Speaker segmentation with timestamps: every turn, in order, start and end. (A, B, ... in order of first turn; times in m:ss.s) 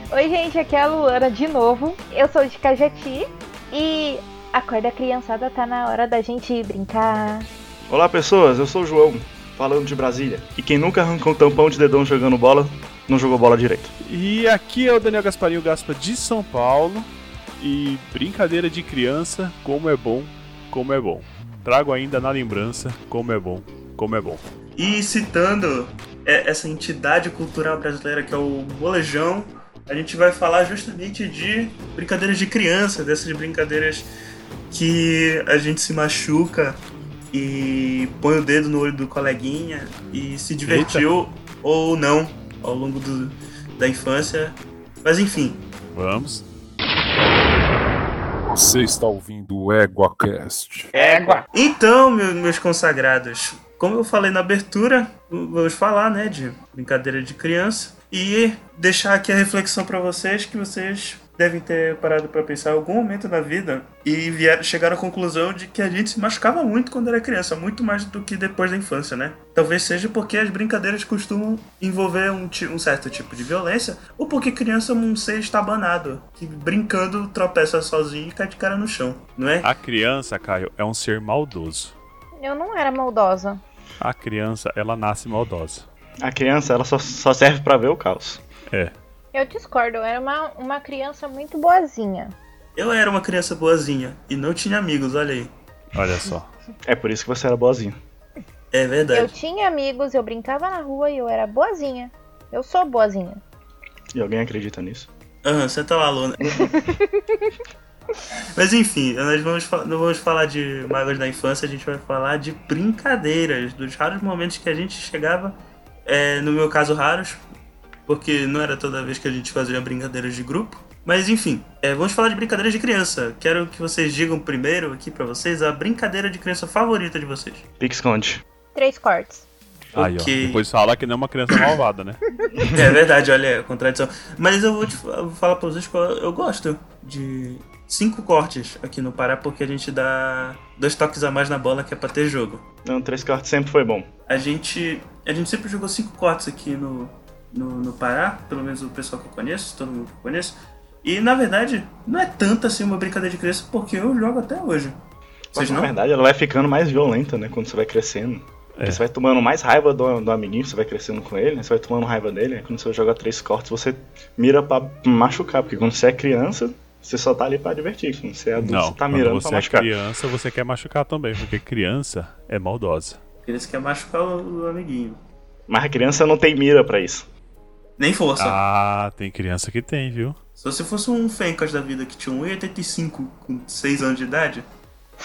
0:00.1-0:07.5 A
0:07.9-0:13.9 B
0:14.0-0:24.4 C
0:24.8-0:34.1 D
0:34.7-0:36.8 D
0:37.3-0:45.6 D
0:40.7-0:41.0 C
0:45.9-0:46.4 C
0:48.5-0:51.4 E
0:51.0-1:19.7 D
1:19.6-1:21.9 C
1:22.4-1:23.6 A
1:24.0-1:25.8 C
1:26.2-1:28.4 B
1:29.3-1:32.3 A
1:32.8-1:35.5 D
1:35.9-1:36.5 C
1:36.8-1:38.0 B
1:38.7-1:39.3 D
1:39.1-1:43.4 A
1:44.1-1:45.1 B
1:45.4-1:46.7 D
1:46.6-1:47.2 A
1:48.5-1:57.4 D
1:58.1-2:07.6 D
2:07.8-2:08.4 B
2:08.7-2:09.4 A
2:09.9-2:10.6 D
2:09.9-2:12.2 C
2:12.7-2:22.6 D
2:22.8-2:24.1 B
2:24.3-2:35.0 D
2:35.5-2:49.9 B
2:35.5-2:35.9 D
2:48.6-2:53.2 C
2:53.4-2:55.2 D
2:55.7-2:57.2 B
2:58.0-2:58.6 D
2:58.4-3:00.4 C
3:00.6-3:04.6 D